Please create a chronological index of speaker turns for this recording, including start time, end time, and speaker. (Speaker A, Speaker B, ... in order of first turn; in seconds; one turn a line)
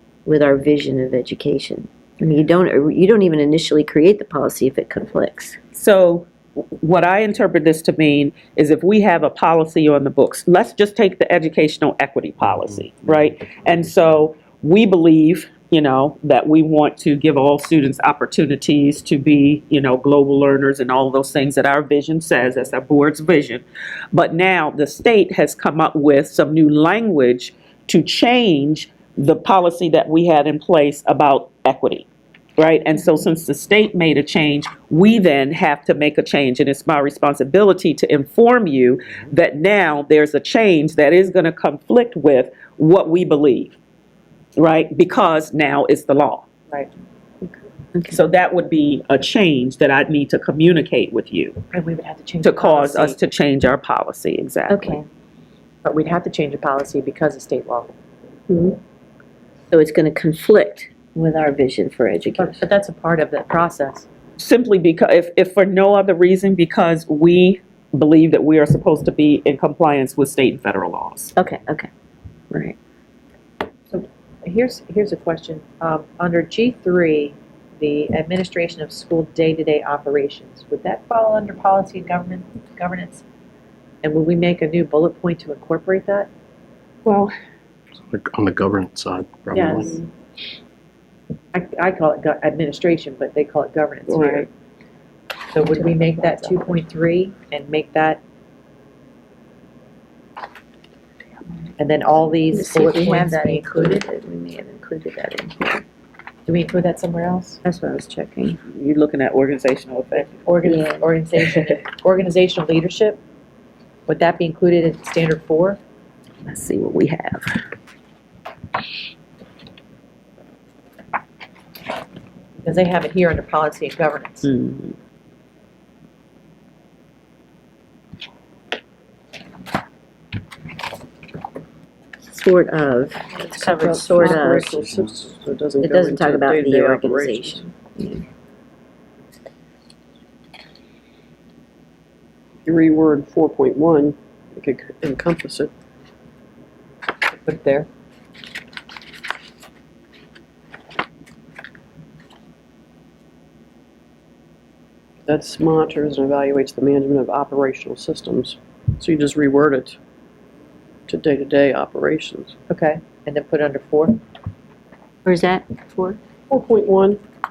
Speaker A: 0.2-5.6
Speaker B: 5.7-43.8
Speaker B: 44.5-46.5
Speaker A: 47.4-48.2
Speaker B: 48.1-51.6
Speaker C: 51.7-53.2
Speaker B: 52.4-55.0
Speaker A: 54.7-55.0
Speaker C: 55.8-57.9
Speaker A: 58.5-58.8
Speaker A: 59.7-62.6
Speaker C: 62.4-64.1
Speaker B: 64.4-71.3
Speaker A: 71.3-71.9
Speaker A: 72.5-72.8
Speaker C: 73.9-83.2
Speaker C: 84.0-86.3
Speaker B: 87.0-87.3
Speaker D: 88.0-90.0
Speaker C: 89.5-90.0
Speaker C: 91.5-94.5
Speaker B: 94.1-94.5
Speaker C: 95.5-98.2
Speaker A: 95.7-96.8
Speaker C: 101.8-104.0
Speaker A: 102.5-105.8
Speaker C: 106.5-107.6
Speaker A: 107.6-108.6
Speaker B: 108.7-110.5
Speaker C: 110.4-113.2
Speaker A: 110.6-111.1
Speaker C: 114.1-115.8
Speaker B: 116.4-117.6
Speaker C: 122.6-124.5
Speaker B: 124.4-125.0
Speaker A: 132.2-134.8
Speaker E: 133.5-137.6
Speaker A: 135.8-138.2
Speaker E: 142.6-145.7
Speaker C: 147.3-147.9
Speaker E: 155.2-160.0
Speaker E: 161.1-162.5
Speaker C: 162.7-164.2
Speaker A: 165.2-166.2
Speaker E: 166.5-167.2